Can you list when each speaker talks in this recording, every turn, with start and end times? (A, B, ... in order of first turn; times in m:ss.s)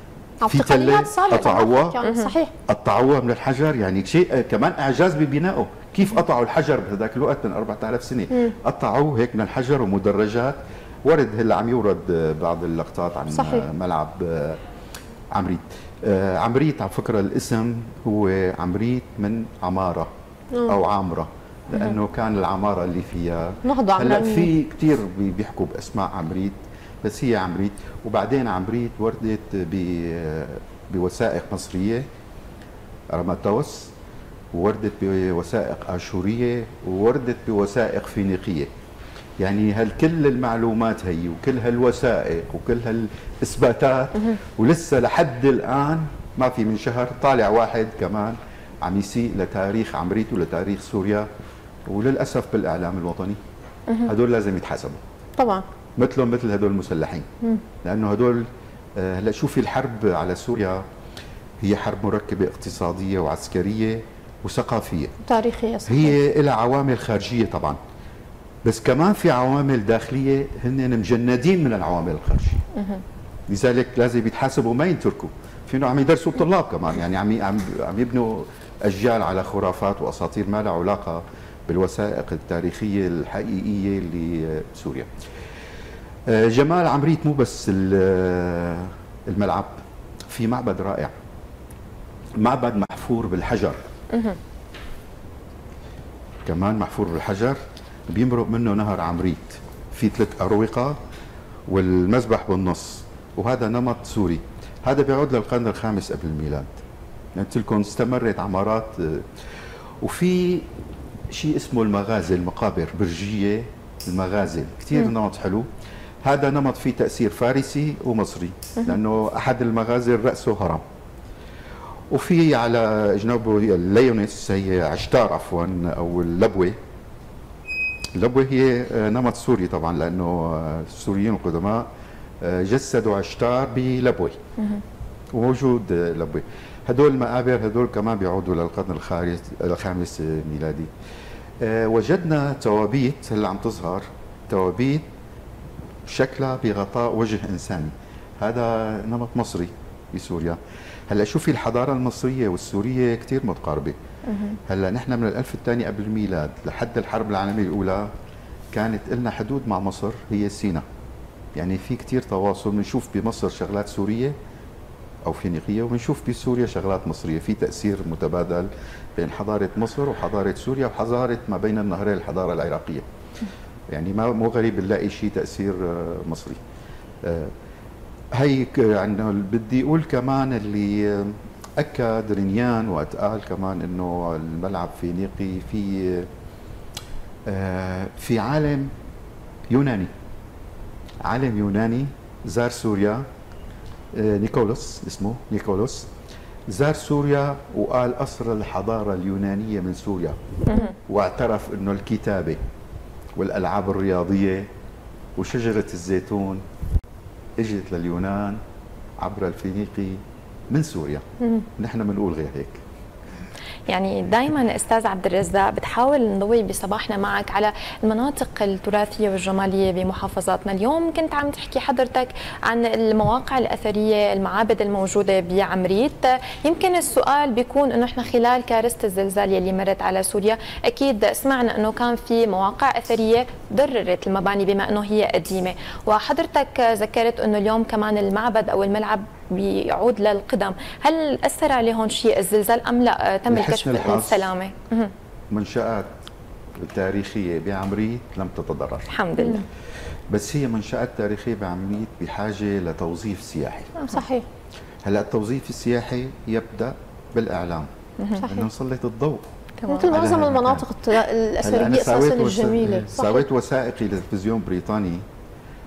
0:00.4-0:02.5 A
0:00.4-0:02.0 B
0:02.0-0:02.3 C
0:02.7-0:14.6 B
0:13.3-0:13.6 A
0:15.3-0:20.1 B
0:20.7-0:32.0 B
0:23.6-0:24.5 A
0:33.1-0:33.9 B
0:34.5-0:38.7 B
0:39.4-0:51.2 B
0:51.9-0:53.4 B
0:54.0-0:55.0 B
0:55.4-0:55.6 A
0:56.0-0:57.2 B
0:57.8-1:00.8 B
1:01.6-1:05.1 B
1:05.2-1:06.2 A
1:05.8-1:07.8 B
1:08.6-1:12.6 B
1:13.5-1:25.1 B
1:26.3-1:31.1 B
1:32.4-1:33.8 B
1:36.4-1:41.0 B
1:41.7-1:46.7 B
1:47.3-1:49.2 B
1:50.0-1:50.7 B
1:51.3-1:55.7 B
1:56.2-2:00.8 B
2:02.1-2:06.8 B
2:08.2-2:11.9 B
2:12.4-2:14.4 B
2:15.3-2:20.9 B
2:21.6-2:25.0 B
2:26.0-2:30.6 B
2:31.1-2:33.9 B
2:34.3-2:34.6 C
2:34.7-2:38.1 B
2:38.7-2:40.8 B
2:41.5-2:44.3 B
2:45.2-2:53.0 B
2:53.9-2:56.6 B
2:57.2-2:57.5 B
2:58.4-3:06.3 B
3:07.4-3:08.9 B
3:09.7-3:10.1 B
3:11.2-3:13.2 B
3:14.1-3:16.1 B
3:16.7-3:20.4 B
3:20.7-3:20.9 C
3:21.0-3:22.6 B
3:23.4-3:24.7 B
3:25.4-3:26.6 B
3:27.6-3:28.6 B
3:29.2-3:31.2 B
3:31.8-3:32.8 B
3:33.9-4:05.1 C
4:03.5-4:04.5 B
4:05.5-4:06.1 B
4:06.8-4:09.1 B
4:09.1-4:09.6 C
4:10.3-4:14.0 B
4:14.1-4:14.4 A
4:15.0-4:19.4 B
4:18.2-4:18.4 C
4:18.4-4:18.7 A
4:19.8-4:20.1 C
4:19.9-4:23.5 A
4:20.0-4:20.8 B
4:21.6-4:25.2 B